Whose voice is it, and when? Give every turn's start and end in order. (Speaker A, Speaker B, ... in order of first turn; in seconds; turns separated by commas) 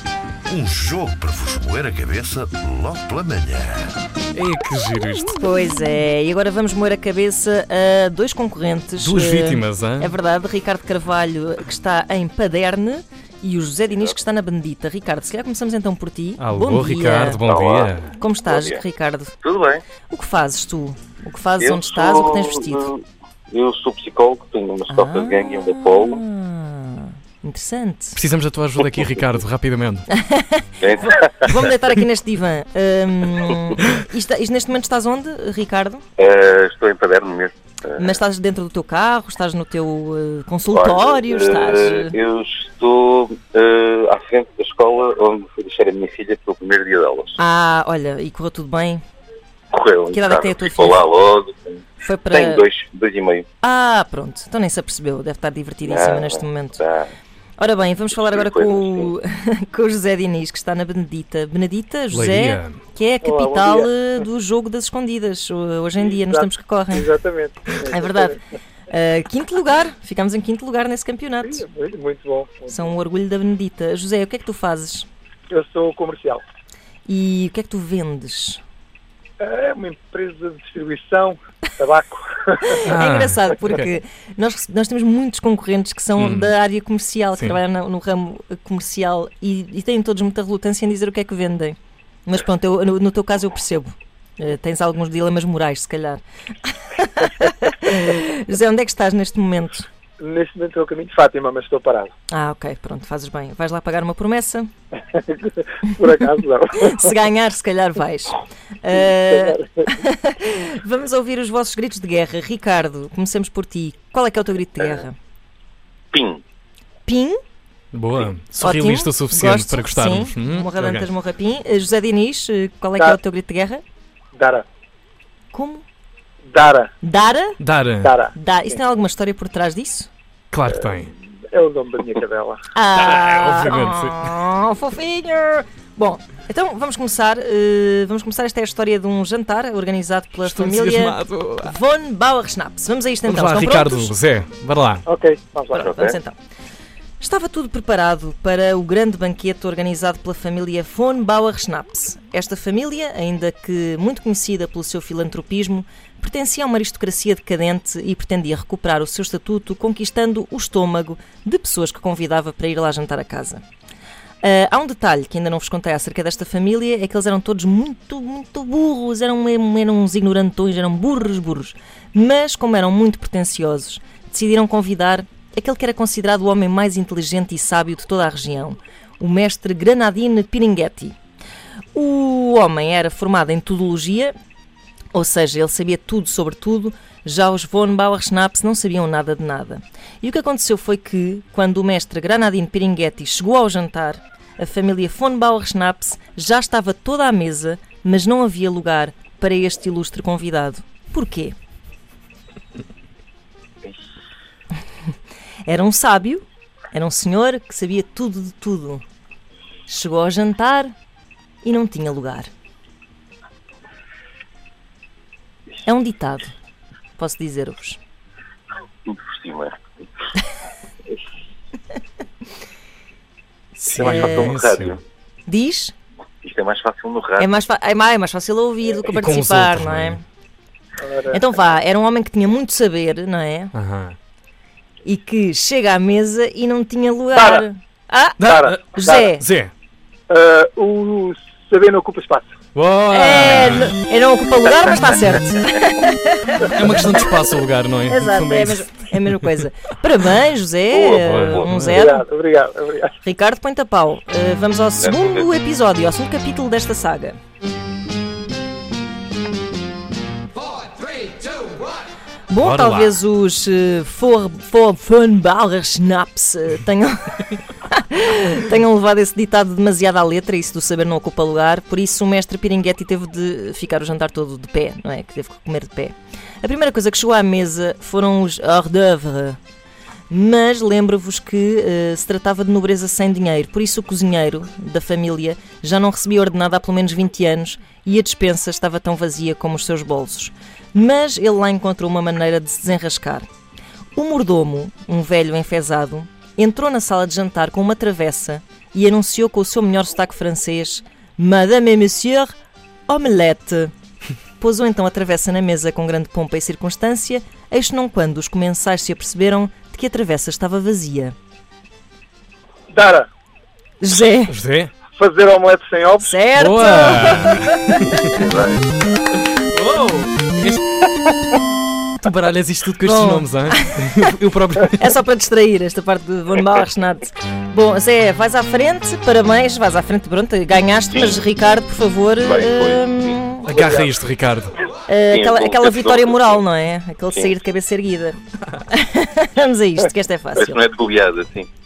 Speaker A: 0.5-4.0, Speaker B: 4.3-5.3, Speaker C: 5.3-17.4, Speaker B: 9.0-10.1, Speaker B: 16.4-18.1, Speaker D: 17.5-17.9, Speaker C: 18.2-19.4, Speaker D: 18.5-18.8, Speaker D: 19.4-19.8, Speaker C: 20.1-22.9, Speaker D: 21.6-26.2, Speaker C: 24.9-28.2, Speaker B: 28.2-30.1, Speaker C: 30.1-36.0, Speaker D: 30.8-31.7, Speaker D: 36.2-38.2, Speaker C: 38.0-42.2, Speaker D: 40.7-47.4, Speaker C: 47.4-49.0, Speaker D: 49.7-53.5, Speaker C: 50.1-51.0, Speaker C: 52.0-52.7, Speaker C: 53.6-56.8, Speaker D: 55.8-57.1, Speaker C: 57.6-67.1, Speaker D: 58.1-59.1, Speaker B: 62.1-62.8, Speaker E: 63.2-63.9, Speaker E: 66.1-68.4, Speaker C: 67.9-68.4, Speaker C: 68.9-71.6, Speaker E: 71.4-72.9, Speaker C: 72.7-75.1, Speaker E: 75.5-76.4, Speaker C: 77.0-78.6, Speaker E: 79.4-82.8, Speaker C: 82.6-99.9, Speaker B: 82.8-83.9, Speaker B: 86.2-86.5, Speaker E: 100.2-102.1, Speaker C: 102.3-104.7, Speaker E: 105.1-107.1, Speaker C: 106.8-115.2, Speaker E: 109.2-109.9, Speaker D: 114.8-115.0, Speaker D: 116.1-116.4, Speaker C: 117.0-117.4, Speaker B: 117.9-121.1, Speaker C: 118.6-123.8, Speaker E: 124.3-124.7, Speaker C: 125.5-125.8, Speaker E: 126.5-126.9, Speaker C: 127.0-127.6, Speaker B: 127.6-128.2, Speaker E: 128.0-128.8, Speaker C: 128.3-130.1, Speaker B: 130.5-131.1, Speaker E: 131.4-132.6, Speaker C: 132.7-144.1, Speaker B: 133.0-134.4, Speaker B: 140.4-141.7, Speaker B: 143.2-145.1, Speaker E: 145.1-145.9, Speaker C: 145.7-146.4, Speaker D: 145.8-146.2, Speaker C: 147.2-163.6, Speaker C: 164.4-181.2, Speaker C: 181.9-184.3, Speaker C: 185.1-201.5, Speaker C: 205.7-209.0, Speaker C: 209.9-210.9, Speaker C: 211.6-212.5, Speaker C: 215.8-216.5, Speaker C: 217.2-218.0, Speaker D: 219.1-219.7, Speaker C: 223.8-224.6, Speaker B: 223.8-225.0, Speaker D: 224.0-225.0, Speaker C: 225.5-225.9, Speaker D: 226.4-227.5, Speaker C: 227.4-230.2, Speaker B: 229.1-230.2, Speaker E: 231.0-231.4, Speaker C: 231.3-233.7, Speaker B: 233.7-234.2, Speaker C: 235.0-239.4, Speaker E: 237.3-237.6, Speaker B: 238.4-239.7, Speaker E: 238.4-239.2, Speaker E: 240.3-242.5, Speaker B: 242.8-243.9, Speaker C: 243.1-246.9, Speaker B: 246.6-249.4, Speaker C: 248.1-252.2, Speaker D: 250.9-251.7, Speaker B: 251.2-252.1, Speaker E: 251.9-253.1, Speaker C: 253.2-257.4, Speaker D: 255.0-255.5, Speaker C: 262.5-279.6, Speaker B: 262.6-263.2, Speaker C: 280.3-293.5, Speaker C: 294.1-302.5, Speaker C: 303.1-303.9, Speaker C: 304.6-311.4, Speaker E: 312.9-313.3, Speaker C: 314.0-314.6, Speaker B: 314.5-314.9, Speaker E: 315.2-316.4, Speaker C: 316.2-318.4, Speaker B: 316.6-318.4, Speaker D: 318.4-318.9, Speaker B: 319.7-320.8, Speaker B: 322.2-325.1, Speaker C: 323.0-324.0, Speaker C: 325.0-333.7, Speaker D: 331.1-331.4, Speaker D: 332.4-333.4, Speaker B: 333.6-334.8, Speaker C: 335.0-340.8, Speaker D: 335.3-336.7, Speaker D: 340.6-341.7